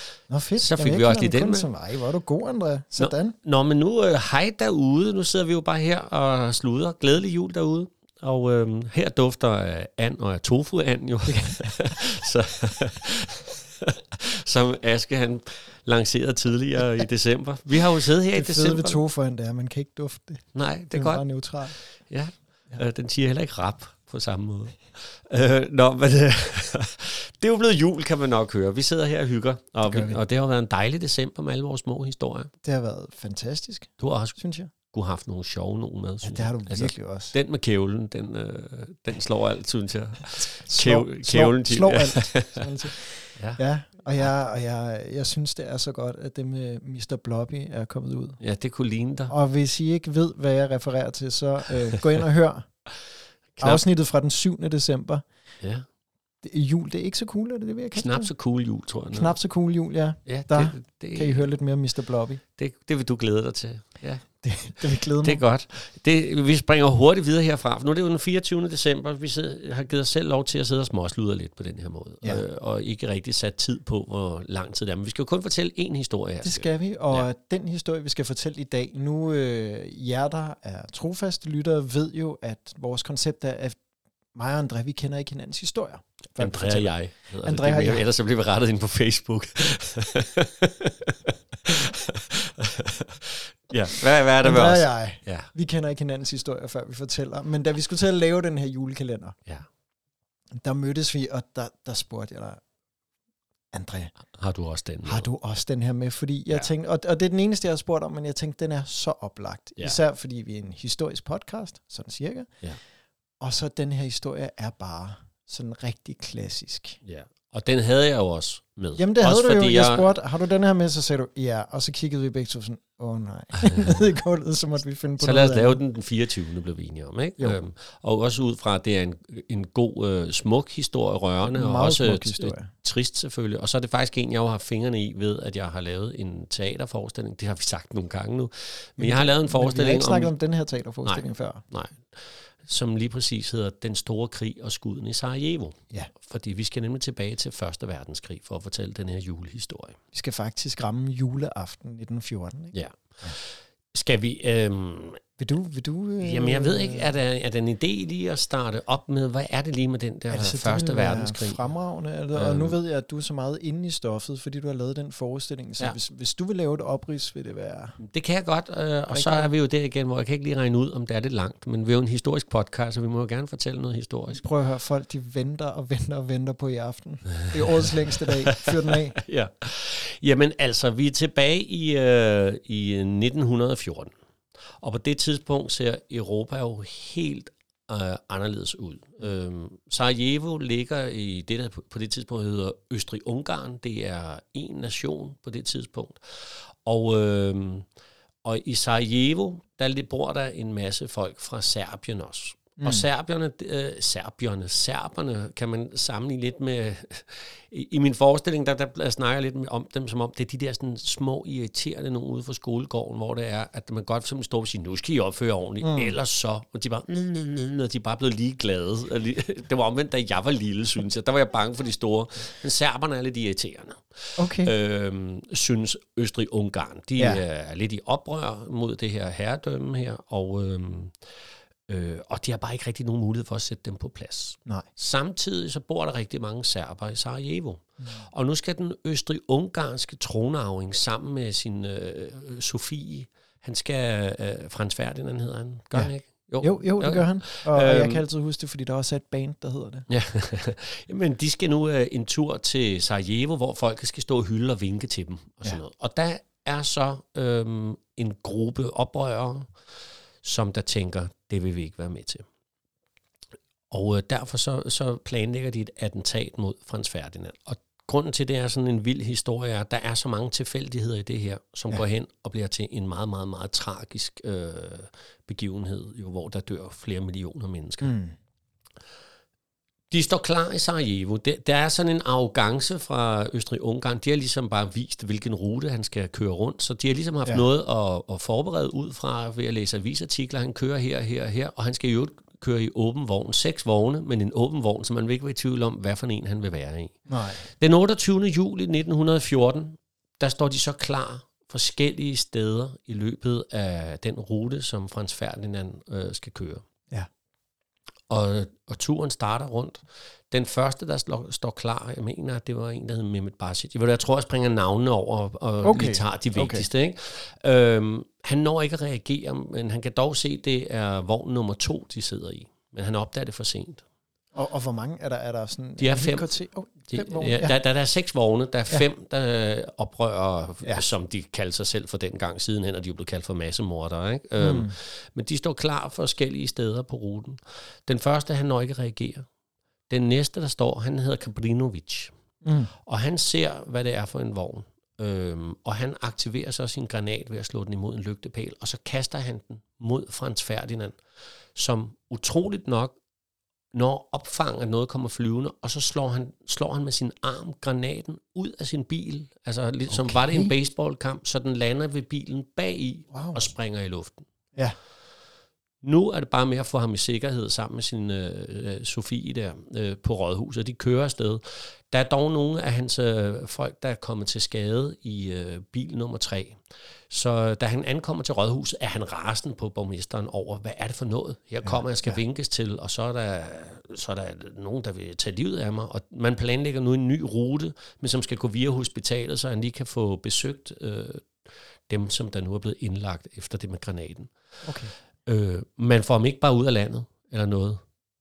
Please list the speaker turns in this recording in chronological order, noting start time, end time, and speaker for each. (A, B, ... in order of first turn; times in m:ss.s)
0:00.3-0:03.4 A
0:00.6-0:01.7 B
0:03.0-0:19.0 B
0:11.3-0:11.7 A
0:18.3-0:21.8 A
0:20.6-0:21.2 B
0:22.1-0:32.5 B
0:29.8-0:30.2 A
0:32.6-0:34.7 A
0:34.0-0:42.7 B
0:36.2-0:37.4 A
0:40.5-0:48.4 A
0:48.4-0:49.3 B
0:49.3-0:52.7 A
0:53.6-0:53.8 B
0:53.6-0:55.2 A
0:55.6-0:55.9 B
0:56.4-0:58.3 A
0:58.0-0:59.4 B
0:59.1-1:02.4 A
1:00.3-1:01.5 B
1:02.6-1:17.3 B
1:04.4-1:05.4 A
1:16.4-1:23.8 A
1:24.3-1:28.0 A
1:26.4-1:35.5 B
1:34.4-1:39.4 A
1:40.6-1:42.6 A
1:43.7-1:44.1 A
1:44.3-1:45.3 B
1:45.0-1:52.5 A
1:53.4-1:57.0 A
1:57.0-2:00.1 B
1:59.0-2:05.8 A
2:05.2-2:20.3 B
2:11.5-2:12.7 A
2:19.0-2:21.6 A
2:21.1-2:30.0 B
2:30.1-2:33.4 A
2:32.7-2:35.2 B
2:35.4-2:37.1 A
2:36.2-2:41.7 B
2:40.3-2:48.0 A
2:42.4-2:42.8 B
2:48.0-2:54.4 B
2:49.1-2:49.6 A
2:54.3-2:59.2 A
2:58.3-3:04.1 B
3:04.8-3:17.9 B
3:18.4-3:51.3 B
3:22.8-3:23.1 A
3:35.8-3:36.2 A
3:44.4-3:44.7 A
3:47.2-3:47.4 A
3:51.9-4:08.2 B
4:05.9-4:10.1 A
4:10.1-4:19.7 B
4:20.4-4:22.4 B
4:23.9-4:38.1 B
4:38.0-4:38.4 A
4:40.1-5:06.8 B
4:57.3-4:57.6 A
5:08.3-5:24.0 B
5:15.8-5:16.9 A
5:24.6-5:27.8 A
5:26.0-5:26.5 B
5:27.1-5:39.4 B
5:34.6-5:35.0 A
5:40.1-5:42.3 B
5:42.6-5:42.9 A
5:43.1-5:51.2 B
5:51.8-5:53.2 B
5:53.9-6:04.5 B
6:00.1-6:00.7 A
6:03.3-6:03.6 A
6:06.0-6:16.8 B
6:17.3-6:31.6 B
6:21.8-6:22.4 A
6:32.1-6:34.5 B
6:34.8-6:35.1 A
6:35.5-6:38.0 B